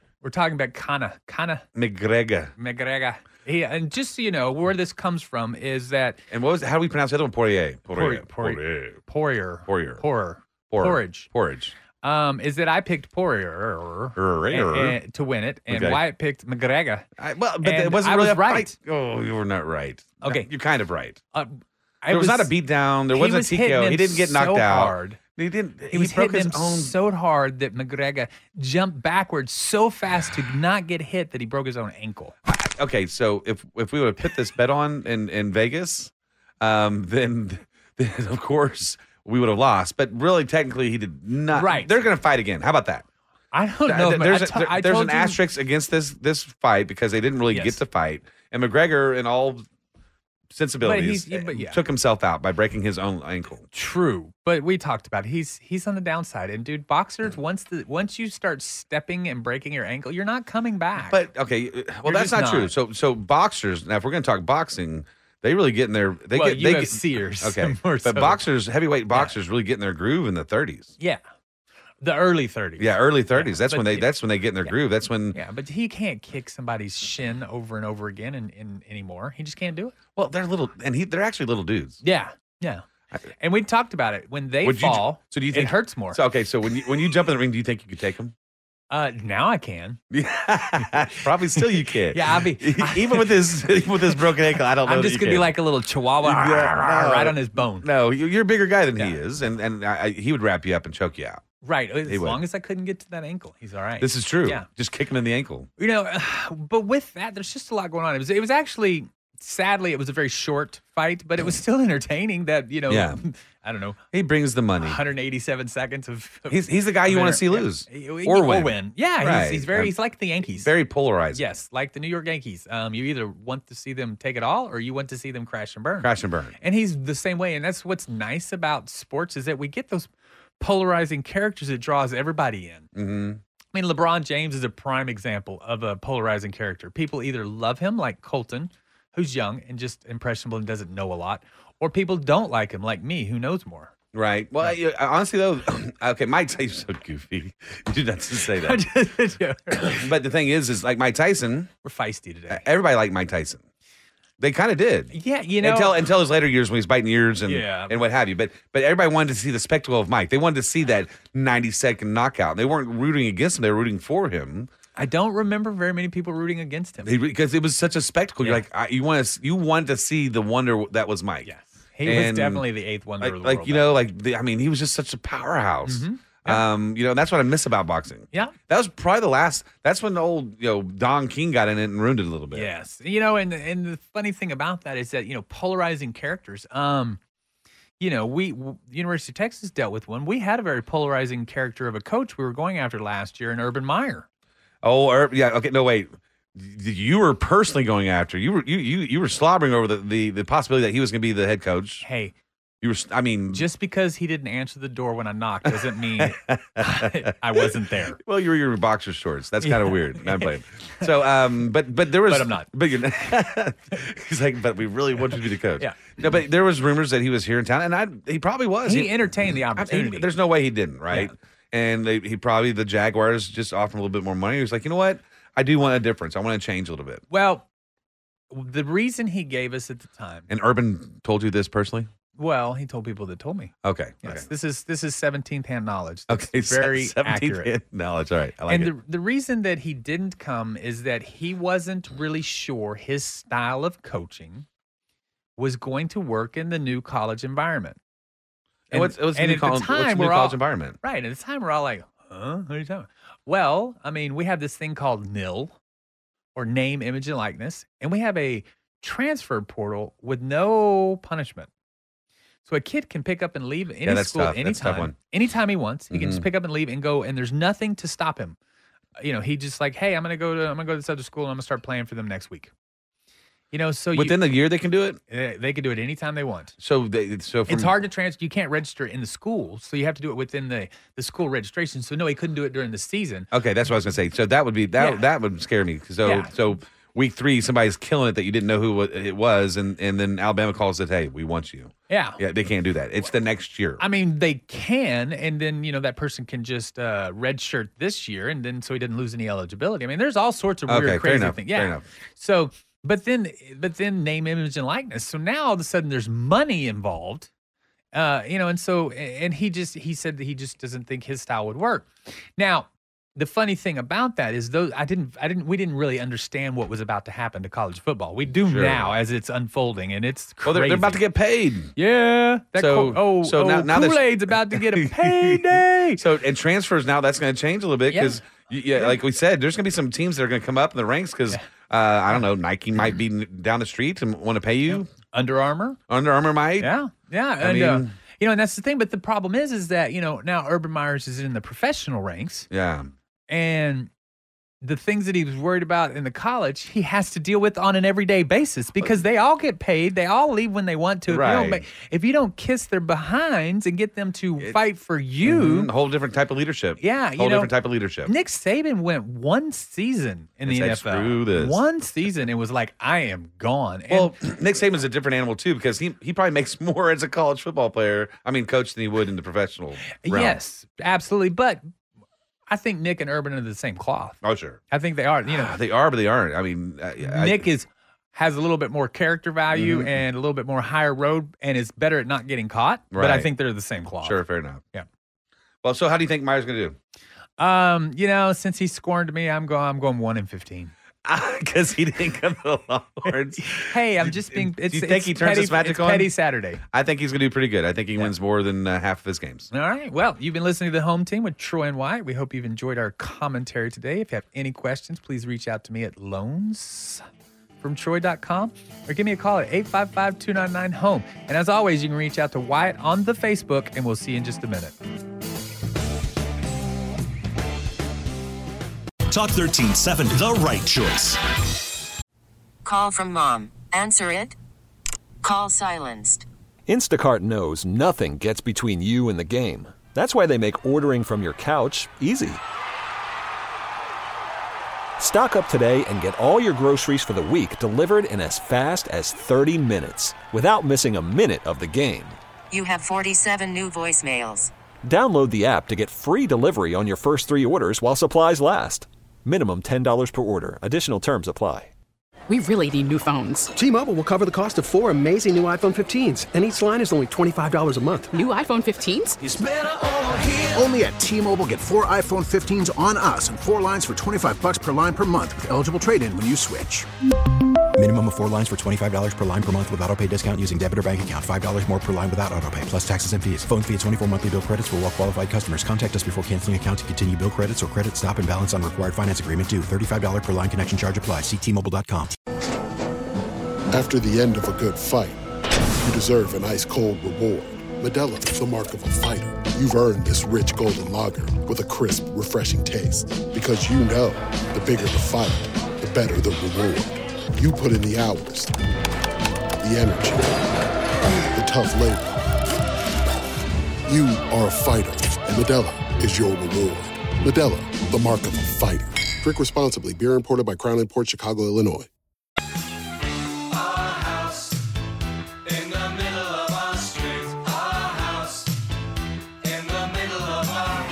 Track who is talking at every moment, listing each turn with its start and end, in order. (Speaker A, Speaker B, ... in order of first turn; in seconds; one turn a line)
Speaker A: 0.2-1.7
Speaker B: 1.8-2.5
Speaker A: 2.6-6.2
Speaker B: 6.3-9.0
Speaker A: 7.9-11.3
Speaker B: 9.7-10.0
Speaker B: 10.7-11.8
Speaker A: 12.0-17.1
Speaker B: 14.2-15.0
Speaker B: 15.7-16.0
Speaker B: 17.2-21.2
Speaker A: 17.6-18.7
Speaker A: 20.2-20.5
Speaker A: 21.3-22.5
Speaker B: 22.1-26.9
Speaker A: 23.1-25.2
Speaker A: 25.9-32.4
Speaker B: 32.5-36.1
Speaker B: 36.6-43.0
Speaker A: 41.5-41.9
Speaker A: 43.5-45.4
Speaker B: 43.9-49.6
Speaker A: 47.5-47.8
Speaker B: 50.5-53.7
Speaker A: 50.8-51.8
Speaker A: 53.7-61.2
Speaker B: 61.1-70.9
Speaker A: 62.0-62.7
Speaker A: 66.3-68.4
Speaker A: 72.0-74.1
Speaker B: 72.8-75.4
Speaker A: 75.3-80.0
Speaker B: 80.2-82.0
Speaker A: 82.0-82.8
Speaker A: 83.4-86.2
Speaker B: 84.6-88.3
Speaker A: 88.9-90.0
Speaker B: 90.1-95.6
Speaker A: 92.1-93.3
Speaker A: 94.8-97.9
Speaker B: 96.2-101.5
Speaker A: 101.6-104.7
Speaker B: 102.1-102.4
Speaker B: 104.0-105.7
Speaker A: 105.8-114.0
Speaker B: 112.9-113.2
Speaker B: 114.1-115.0
Speaker A: 114.8-120.7
Speaker B: 116.5-119.9
Speaker B: 120.6-121.4
Speaker A: 121.3-130.1
Speaker B: 126.0-126.6
Speaker A: 130.6-132.9
Speaker B: 133.0-133.4
Speaker A: 133.7-143.9
Speaker B: 144.1-148.8
Speaker A: 148.6-150.1
Speaker B: 149.8-151.7
Speaker A: 151.8-152.6
Speaker B: 152.5-153.6
Speaker B: 154.4-164.7
Speaker A: 155.1-156.0
Speaker A: 157.4-158.0
Speaker A: 165.0-167.1
Speaker B: 167.0-171.5
Speaker A: 171.4-173.9
Speaker B: 172.0-172.7
Speaker B: 173.2-182.7
Speaker A: 175.9-176.6
Speaker A: 182.5-187.2
Speaker A: 188.0-194.3
Speaker B: 194.8-202.1
Speaker A: 202.0-202.3
Speaker B: 202.8-203.7
Speaker A: 203.5-208.2
Speaker B: 205.7-207.6
Speaker B: 208.2-219.2
Speaker A: 209.6-210.5
Speaker A: 212.3-212.7
Speaker A: 215.8-216.1
Speaker A: 218.8-220.3
Speaker B: 219.8-227.2
Speaker A: 227.3-227.7
Speaker A: 228.5-230.5
Speaker B: 230.5-232.1
Speaker A: 232.4-237.7
Speaker B: 233.8-234.5
Speaker B: 236.3-238.9
Speaker A: 238.7-244.7
Speaker A: 245.6-248.0
Speaker B: 248.9-251.0
Speaker A: 248.9-255.8
Speaker A: 256.6-261.7
Speaker A: 262.6-268.6
Speaker B: 264.1-265.1
Speaker B: 266.1-266.4
Speaker A: 269.2-272.7
Speaker A: 273.7-274.4
Speaker B: 274.1-275.2
Speaker A: 275.3-276.8
Speaker B: 276.8-277.9
Speaker A: 277.7-283.5
Speaker B: 283.5-294.0
Speaker A: 285.0-285.2
Speaker A: 286.2-286.5
Speaker A: 292.1-292.4
Speaker A: 294.0-307.5
Speaker B: 300.9-302.1
Speaker A: 308.1-321.2
Speaker B: 318.6-319.2
Speaker B: 320.6-321.9
Speaker A: 322.0-326.2
Speaker B: 322.8-335.1
Speaker A: 328.1-329.2
Speaker A: 334.9-336.0
Speaker B: 336.1-336.9
Speaker A: 336.8-342.7
Speaker B: 337.6-338.1
Speaker B: 342.7-343.1
Speaker A: 343.5-344.1
Speaker A: 344.8-355.9
Speaker B: 351.3-351.8
Speaker B: 355.4-358.3
Speaker A: 357.0-357.7
Speaker A: 358.3-364.3
Speaker B: 360.6-361.8
Speaker B: 364.1-370.6
Speaker A: 370.2-371.9
Speaker A: 372.7-374.4
Speaker B: 374.4-374.8
Speaker A: 374.9-375.7
Speaker B: 375.5-377.6
Speaker A: 377.2-384.4
Speaker B: 379.7-380.1
Speaker B: 383.1-383.5
Speaker B: 384.2-384.8
Speaker B: 385.8-387.0
Speaker A: 387.6-390.9
Speaker B: 391.2-396.3
Speaker A: 393.6-396.8
Speaker B: 396.9-399.7
Speaker A: 399.7-407.2
Speaker A: 407.8-414.9
Speaker C: 419.3-421.4
Speaker D: 422.9-424.6
Speaker D: 425.4-426.4
Speaker E: 426.9-432.6
Speaker E: 435.2-442.4
Speaker D: 442.7-444.7
Speaker E: 445.0-451.9
Speaker F: 452.5-453.7
Speaker G: 453.8-458.3
Speaker F: 458.3-459.4
Speaker H: 459.4-467.1
Speaker I: 468.0-482.4
Speaker J: 483.9-485.4
Speaker J: 486.0-498.8
Speaker J: 499.8-500.7
Speaker J: 501.5-502.4
Speaker J: 504.1-512.1
Speaker H: 514.2-514.5
Speaker H: 515.9-518.6
Speaker H: 519.8-520.6